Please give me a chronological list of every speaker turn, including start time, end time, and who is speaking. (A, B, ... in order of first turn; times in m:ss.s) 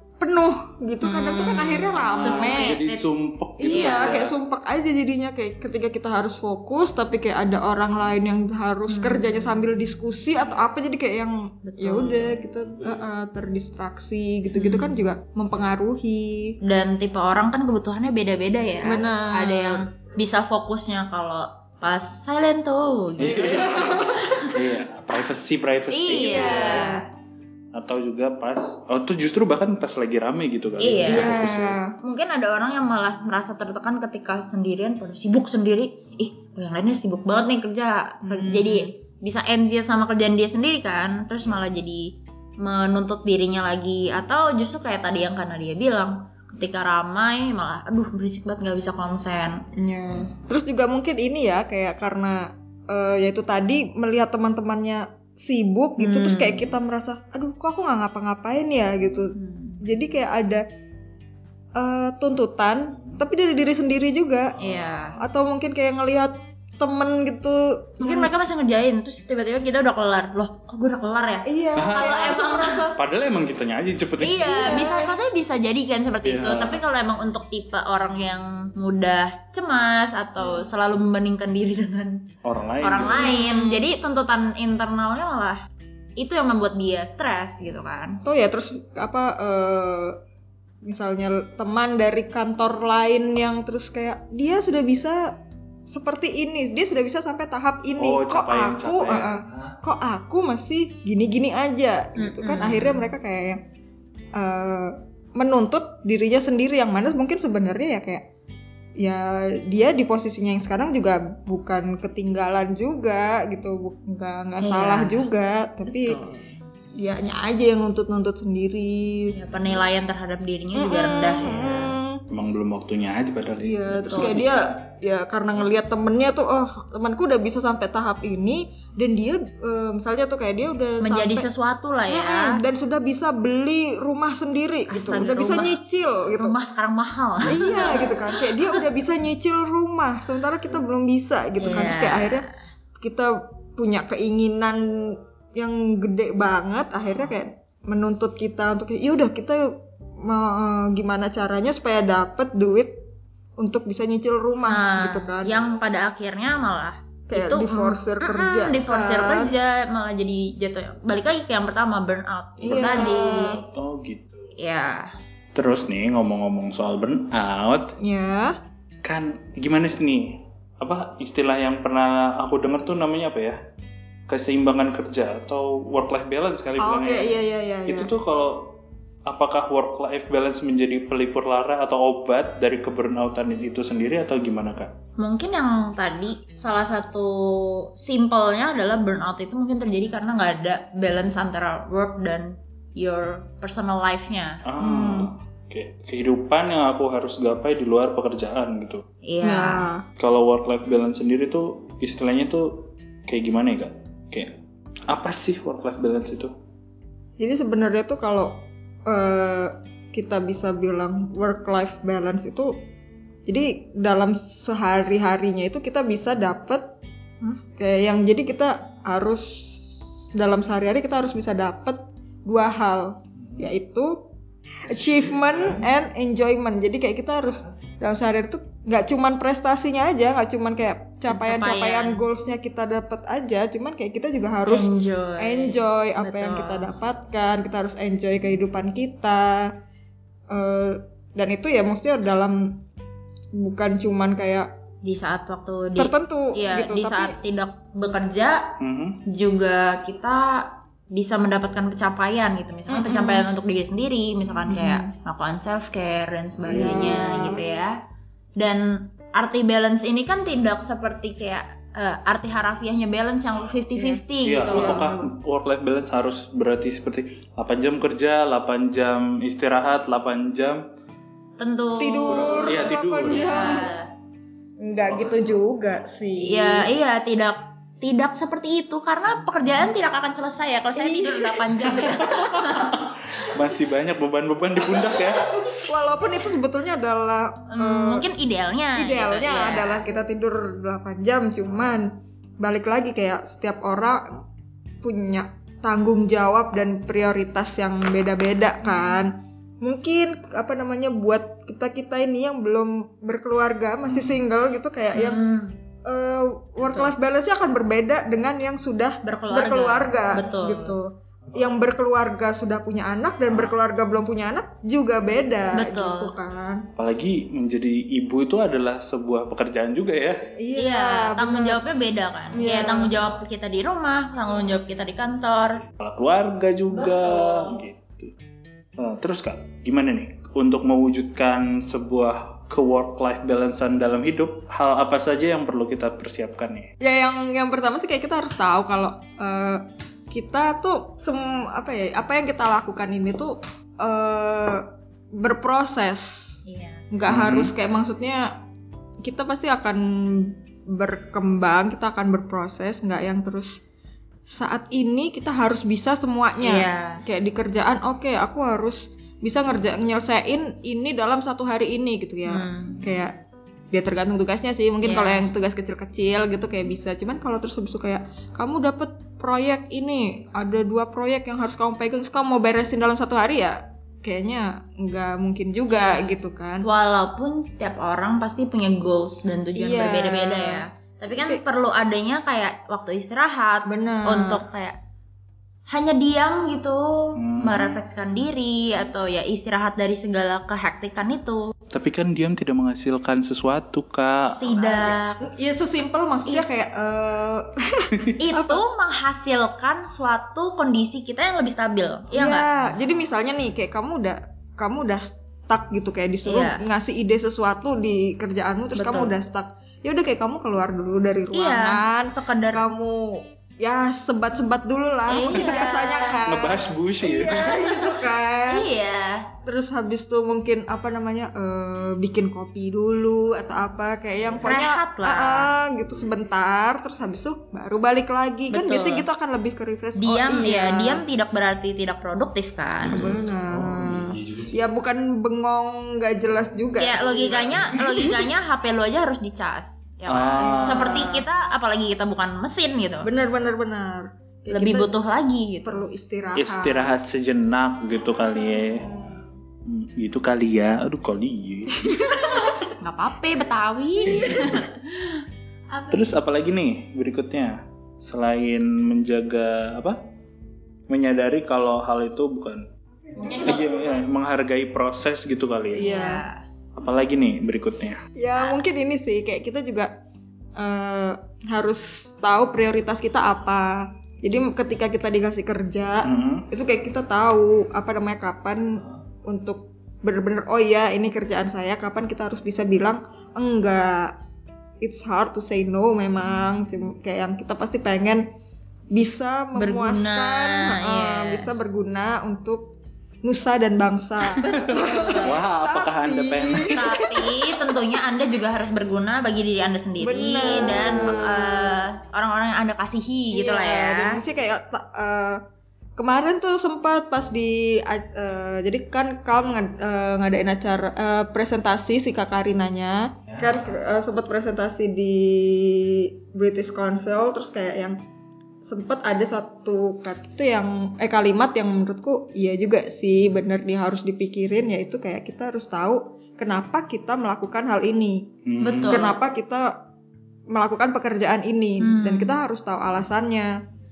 0:00.2-0:02.8 A
0:01.0-0:03.0 B
0:02.1-0:04.3 C
0:03.6-0:16.6 A
0:03.7-0:04.2 B
0:08.9-0:09.6 B
0:11.6-0:12.4 B
0:14.5-0:15.0 B
0:16.6-0:24.5 B
0:18.8-0:19.8 A
0:23.2-0:26.9 C
0:23.2-0:24.3 A
0:25.9-0:27.0 B
0:26.1-0:27.0 A
0:27.7-0:31.8 C
0:30.8-0:31.3 B
0:31.0-0:31.9 A
0:32.0-0:49.6 B
0:38.2-0:38.9 A
0:49.7-1:00.6 A
0:56.0-0:56.6 B
0:59.3-0:59.8 B
1:01.8-1:04.6 A
1:04.6-1:04.9 C
1:04.6-1:05.2 B
1:05.2-1:08.3 A
1:08.0-1:12.8 B
1:11.4-1:13.0 A
1:11.8-1:12.4 C
1:13.0-1:14.8 C
1:14.2-1:22.2 B
1:14.4-1:15.1 A
1:16.2-1:16.8 C
1:22.4-1:23.3 C
1:22.8-1:25.6 B
1:23.0-1:23.9 A
1:26.2-1:28.2 B
1:28.2-1:30.2 A
1:30.8-1:35.3 A
1:35.9-1:43.6 A
1:38.0-1:39.8 C
1:42.2-1:43.1 B
1:44.3-1:48.2 A
1:49.0-1:56.2 A
1:54.6-1:55.3 B
1:55.9-1:56.4 B
1:57.0-1:59.3 A
1:59.3-2:01.9 B
2:00.7-2:02.2 A
2:02.3-2:04.7 C
2:03.6-2:11.5 A
2:04.1-2:04.4 B
2:11.0-2:12.6 B
2:12.1-2:16.6 A
2:14.9-2:15.8 B
2:16.4-2:18.8 B
2:17.5-2:22.5 A
2:21.6-2:22.5 B
2:23.0-2:29.7 A
2:30.2-2:32.9 A
2:33.6-2:35.6 A
2:34.7-2:43.6 B
2:37.3-2:39.5 A
2:42.6-2:43.6 A
2:43.7-2:44.4 C
2:44.6-2:45.1 B
2:45.5-2:47.9 C
2:48.0-2:48.6 A
2:49.0-2:53.6 C
2:54.3-2:57.3 C
2:56.8-2:58.1 A
2:57.9-3:04.9 C
3:05.2-3:14.6 B
3:14.6-3:19.0 C
3:14.8-3:15.3 A
3:19.2-3:19.9 B
3:19.4-3:20.0 A
3:20.2-3:24.5 C
3:25.1-3:26.5 C
3:27.4-3:32.7 A
3:33.5-3:36.8 A
3:37.4-3:44.2 A
3:44.9-3:59.7 A
3:44.9-3:45.9 C
3:51.3-3:52.2 B
3:54.7-3:56.9 B
4:00.5-4:02.8 A
4:03.6-4:04.7 A
4:05.0-4:08.7 B
4:06.0-4:07.3 A
4:08.8-4:09.2 C
4:09.3-4:17.9 B
4:12.9-4:13.5 A
4:14.6-4:15.1 A
4:16.7-4:17.2 C
4:16.7-4:17.6 A
4:18.6-4:25.0 B
4:24.0-4:25.2 A
4:24.4-4:30.8 C
4:31.6-4:34.1 B
4:32.0-4:33.9 A
4:32.3-4:33.7 C
4:34.8-4:36.9 A
4:35.0-4:35.6 C
4:36.4-4:42.9 B
4:41.0-4:41.9 A
4:41.9-4:45.5 C
4:45.7-4:48.3 A
4:47.7-4:50.0 B
4:48.9-4:54.3 A
4:55.0-5:05.4 A
5:05.1-5:05.8 B
5:06.0-5:16.8 A
5:06.8-5:07.1 B
5:09.2-5:11.0 B
5:15.7-5:16.3 B
5:17.0-5:20.4 C
5:20.6-5:21.8 A
5:20.7-5:25.8 B
5:22.5-5:23.2 A
5:26.0-5:28.3 C
5:26.9-5:27.8 B
5:29.0-5:36.9 C
5:37.0-5:44.8 A
5:45.4-5:48.5 A
5:46.7-5:47.0 B
5:47.3-5:47.7 C
5:49.2-5:53.8 A
5:54.5-6:03.3 A
5:56.6-5:57.2 B
6:02.5-6:03.1 B
6:03.9-6:16.8 A
6:05.0-6:05.5 B
6:15.9-6:16.2 B
6:16.8-6:24.9 B
6:19.8-6:21.6 A
6:23.8-6:24.6 A
6:25.9-6:31.7 B
6:27.4-6:28.0 C
6:31.9-6:34.6 C
6:34.6-6:35.4 B
6:34.6-6:38.8 A
6:38.4-6:42.7 B
6:42.3-6:58.9 A
6:46.4-6:46.8 B
6:48.9-6:49.4 B
6:51.5-6:52.9 B
6:55.3-6:56.4 B
6:56.5-6:58.0 C
6:58.6-6:59.5 B
6:59.6-7:11.2 A
7:04.6-7:05.7 B
7:08.7-7:09.2 B
7:10.2-7:13.3 B
7:13.0-7:18.5 A
7:13.1-7:14.8 C
7:17.0-7:23.3 B
7:17.5-7:17.8 C
7:20.3-7:21.3 C
7:20.6-7:21.4 A
7:23.2-7:25.1 A
7:24.7-7:26.0 B
7:25.8-7:27.1 A
7:26.6-7:29.1 C
7:29.8-7:32.0 C
7:32.0-7:32.8 A
7:32.7-7:36.3 B
7:36.1-7:40.2 C
7:41.1-7:42.8 C
7:43.2-7:43.9 A
7:43.4-7:44.0 B
7:43.6-7:46.1 C
7:45.9-7:46.4 A
7:46.0-7:46.6 B
7:47.0-7:48.2 C
7:48.4-7:50.1 A
7:50.8-8:04.3 A
7:56.2-7:56.7 C
8:05.0-8:08.4 A
8:09.1-8:12.9 A
8:09.8-8:11.6 B
8:13.4-8:17.6 A
8:14.6-8:15.5 B
8:14.7-8:17.1 C
8:16.9-8:24.4 B
8:20.2-8:21.9 A
8:23.5-8:25.6 A
8:26.2-8:38.2 A
8:38.8-8:48.5 A
8:48.6-8:49.2 C
8:48.8-8:49.4 B
8:49.0-8:49.9 A
8:50.7-8:53.8 A
8:52.0-8:52.6 B